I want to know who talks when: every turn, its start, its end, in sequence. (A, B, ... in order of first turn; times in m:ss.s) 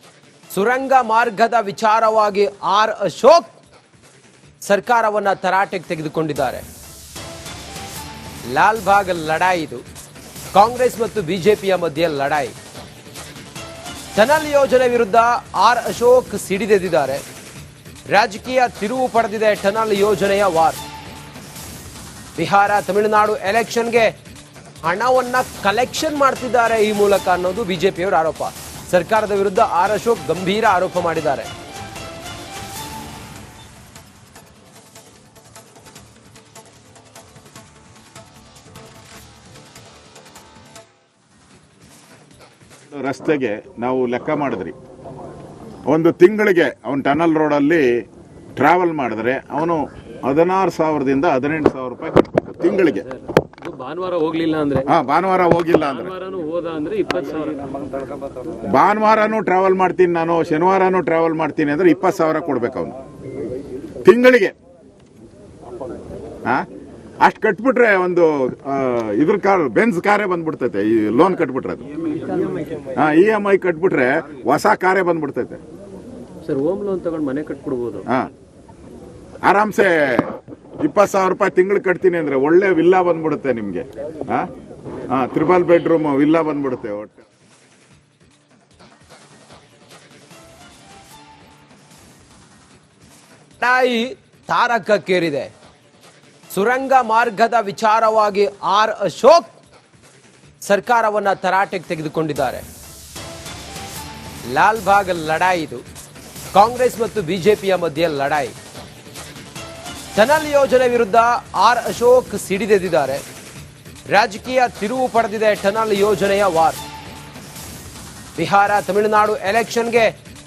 0:00.5-0:03.6 A
0:04.6-0:06.6 A
0:08.5-0:09.8 A
0:10.5-0:12.5 A
0:14.1-0:17.2 A
0:18.1-0:20.8 A
0:22.4-0:24.1 A
0:24.8-0:31.5 A
0:42.8-0:44.7 B
0:45.9-0:47.9 B
0:48.6-0:53.1 B
0:53.0-0:54.9 C
0:54.8-0:56.1 B
0:55.8-0:57.6 C
0:58.7-1:03.0 B
1:04.0-1:04.5 B
1:07.2-1:11.9 B
1:12.9-1:15.6 B
1:16.5-1:18.0 A
1:19.4-1:24.5 B
1:25.1-1:27.2 B
1:33.6-1:35.5 A
1:36.5-1:39.6 A
1:40.6-1:42.6 A
1:44.5-1:45.8 A
1:46.5-1:48.5 A
1:50.1-1:53.2 A
1:54.1-1:56.8 A
1:58.4-2:00.1 A